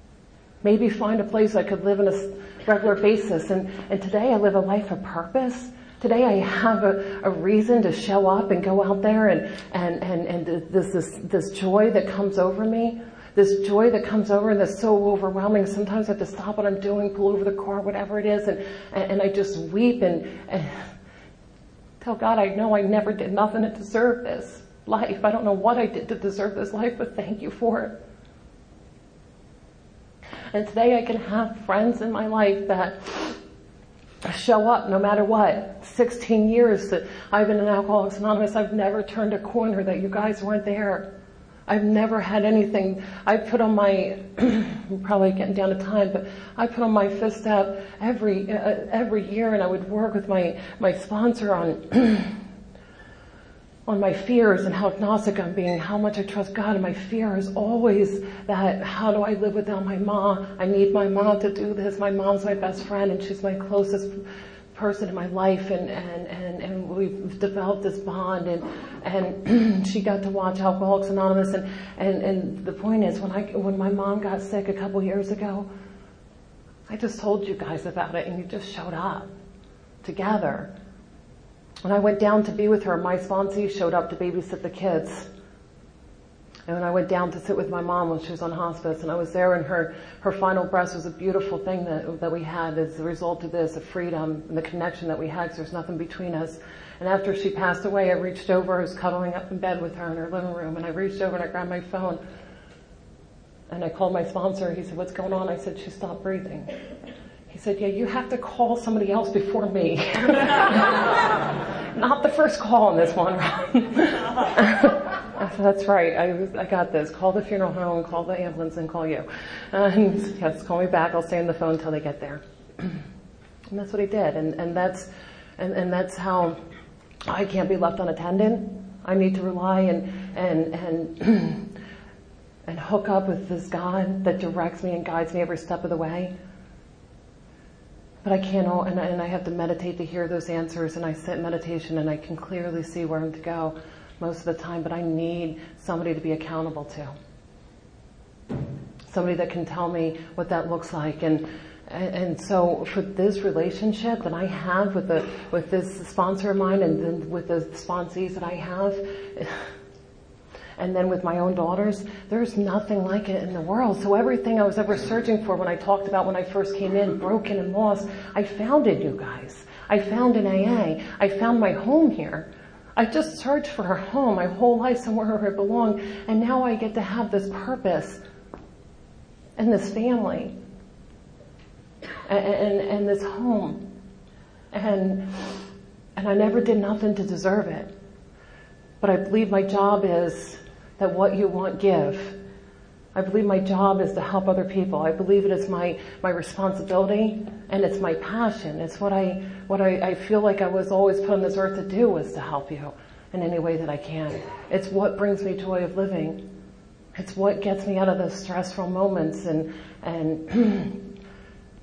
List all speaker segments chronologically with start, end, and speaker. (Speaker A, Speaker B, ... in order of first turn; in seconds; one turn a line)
Speaker A: 0.6-20.8
Speaker A: 22.0-28.0
Speaker A: 30.5-33.4
Speaker A: 34.2-41.1
Speaker A: 41.7-52.4
Speaker A: 53.9-75.7
Speaker A: 76.9-79.3
Speaker A: 80.0-80.7
Speaker A: 81.8-85.3
Speaker A: 86.7-102.2
Speaker A: 103.7-106.7
Speaker A: 107.5-111.1
Speaker A: 112.0-123.0
Speaker A: 123.7-126.6
Speaker A: 127.3-131.7
Speaker A: 132.7-136.3
Speaker A: 138.2-147.1
Speaker A: 149.1-159.7
Speaker A: 160.8-178.2
Speaker A: 179.6-180.5
Speaker A: 182.2-183.9
Speaker A: 184.7-185.6
Speaker A: 186.2-187.9
Speaker A: 189.0-192.4
Speaker A: 193.1-206.5
Speaker A: 207.2-211.1